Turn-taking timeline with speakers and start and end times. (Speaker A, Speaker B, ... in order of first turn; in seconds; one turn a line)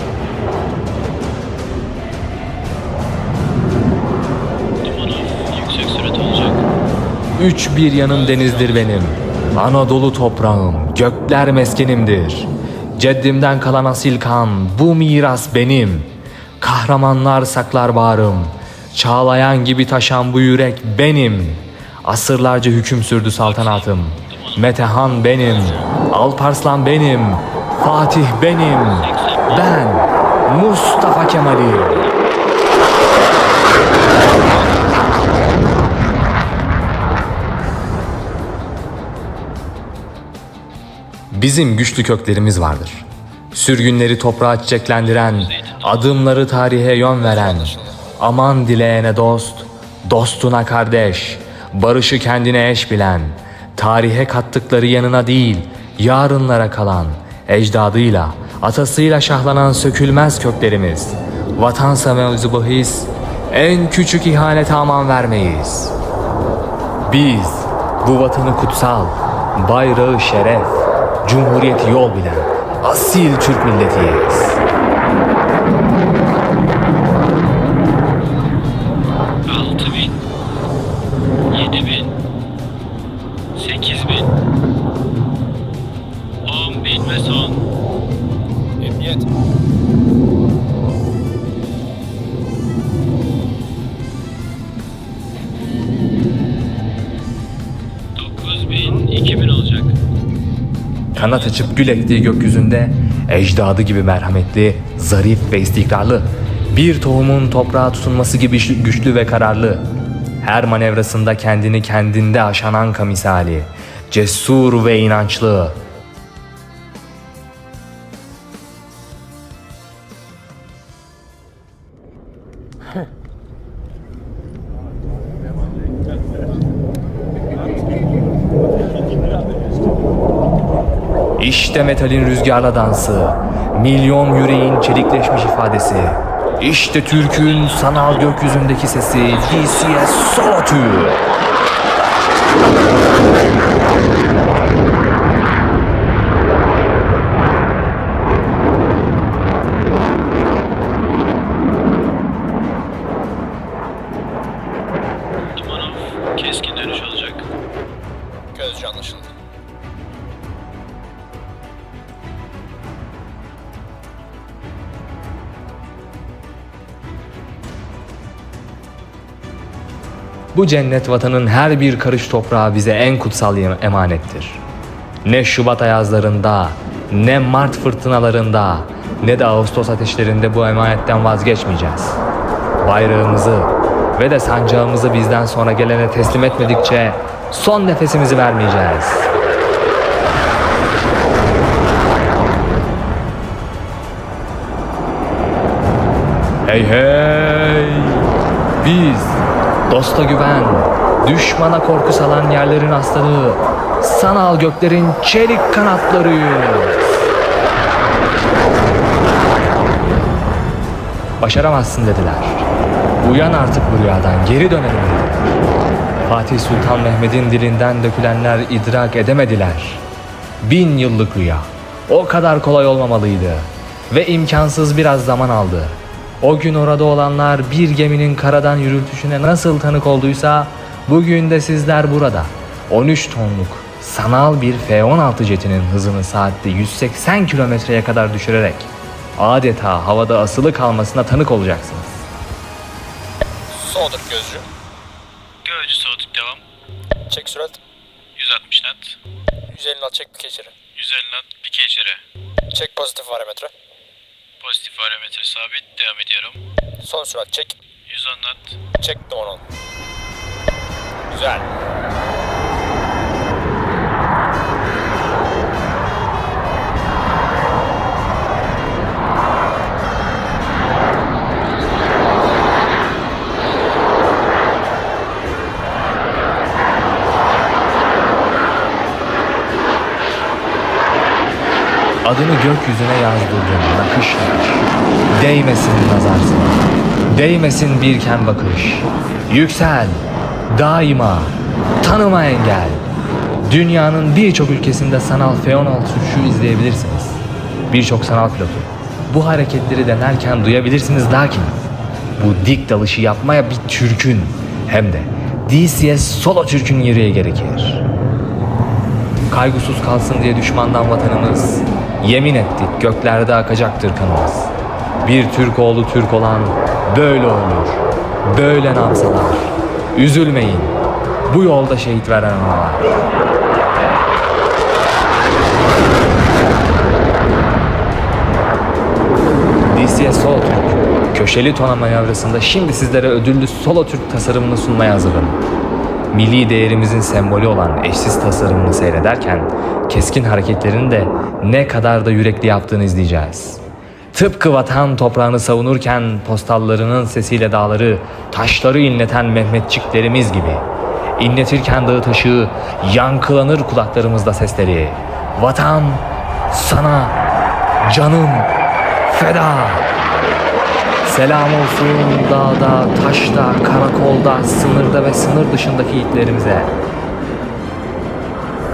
Speaker A: 4.8-6.6
Speaker B: 7.3-32.1
Speaker C: 8.0-9.1
Speaker A: 23.4-25.9
Speaker A: 28.8-29.8
Speaker A: 31.7-32.5
Speaker C: 34.5-34.8
Speaker B: 41.3-65.9
Speaker A: 45.0-46.2
Speaker C: 47.1-48.0
Speaker B: 67.0-74.6
Speaker A: 79.5-80.2
Speaker A: 81.5-82.1
Speaker A: 83.5-84.3
Speaker A: 86.4-87.6
Speaker C: 88.8-89.3
Speaker A: 98.2-100.0
Speaker B: 101.1-109.8
Speaker B: 110.4-115.8
Speaker B: 131.4-141.2
Speaker A: 137.1-138.3
Speaker A: 139.3-139.8
Speaker A: 155.5-157.5
Speaker C: 158.5-159.3
Speaker B: 170.5-174.6
Speaker B: 175.2-182.2
Speaker B: 182.8-189.3
Speaker B: 196.7-198.3
Speaker B: 198.8-207.3
Speaker B: 211.4-212.7
Speaker B: 213.2-215.6
Speaker B: 216.2-220.0
Speaker B: 220.6-242.2
Speaker C: 243.7-244.7
Speaker A: 245.6-246.6
Speaker C: 247.3-247.8
Speaker A: 248.3-249.2
Speaker C: 249.7-250.7
Speaker A: 250.9-252.2
Speaker C: 252.7-253.7
Speaker A: 254.6-256.6
Speaker C: 257.0-257.8
Speaker A: 258.1-258.8
Speaker C: 259.0-259.6
Speaker C: 261.3-261.7
Speaker B: 282.2-293.1
Speaker B: 293.6-301.8
Speaker B: 302.4-308.0
Speaker B: 309.5-314.7
Speaker B: 315.2-323.1
Speaker B: 329.9-335.6
Speaker B: 336.3-343.8
Speaker B: 344.3-350.9
Speaker B: 351.4-357.4
Speaker B: 358.0-358.7
Speaker B: 359.3-360.2
Speaker B: 361.2-366.9